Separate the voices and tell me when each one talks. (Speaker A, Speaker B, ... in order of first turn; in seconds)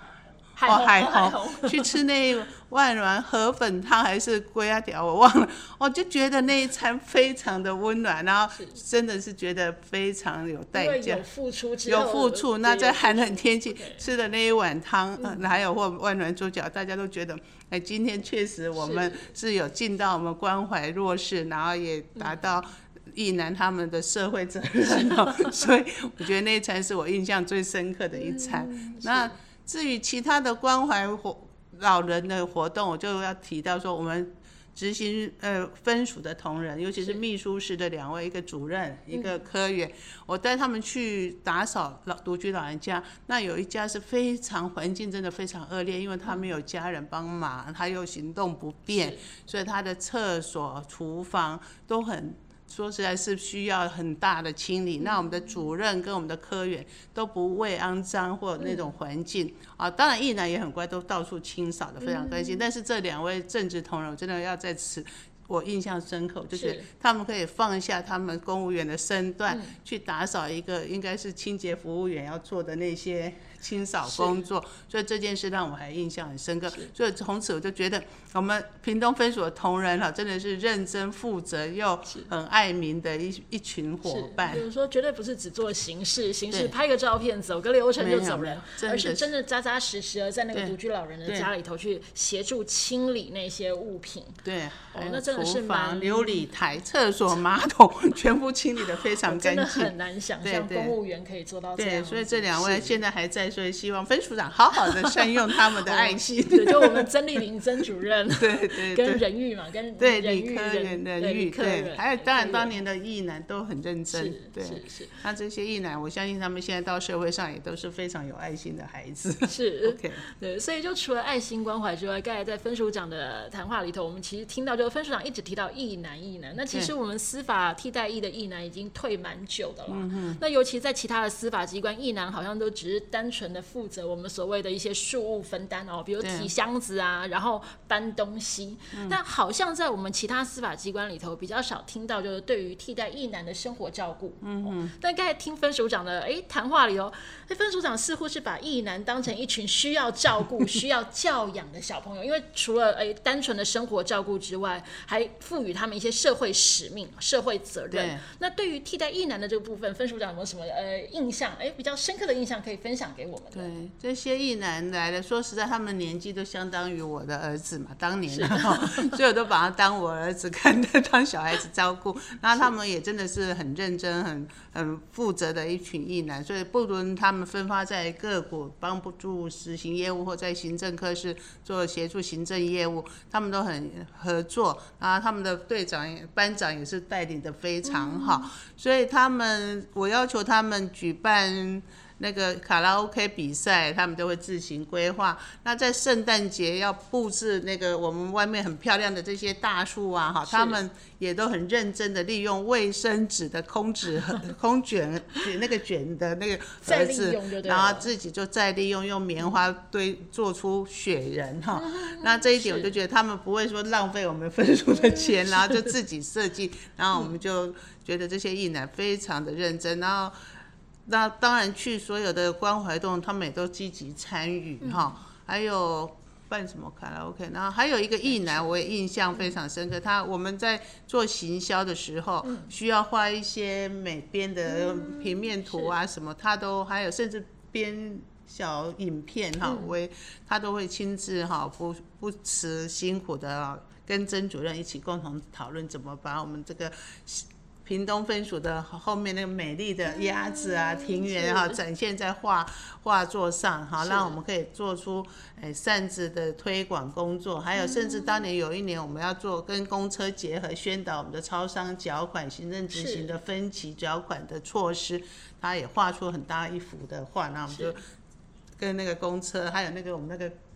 Speaker A: 0.6-2.0, 10.7-14.0, 15.2-15.4, 18.8-19.2, 24.8-25.3, 28.1-29.4, 48.9-49.2, 55.0-55.6, 58.6-58.9, 62.0-62.6, 66.5-66.9, 69.5-69.8, 74.1-74.4, 84.1-94.4, 94.9-96.4, 99.2-103.0, 104.9-112.7, 114.1-115.2, 119.5-163.7, 168.3-169.1, 187.8-188.5, 200.5-200.8, 206.8-208.1, 211.8-212.9, 215.0-215.3, 224.8-225.2, 228.3-228.7, 232.4-232.7, 234.7-235.9, 239.6-239.9, 250.2-251.8, 254.0-254.4, 257.8-258.4, 262.9-263.4, 267.7-268.0
Speaker B: 0.7-11.2, 11.9-84.6, 88.0-89.3, 90.5-91.5, 94.5-101.0, 101.8-107.1, 108.4-109.2, 110.0-120.2, 129.9-130.4, 136.2-136.5, 144.4-144.9, 157.9-158.2, 163.5-220.3, 221.1-268.0, 268.8-270.6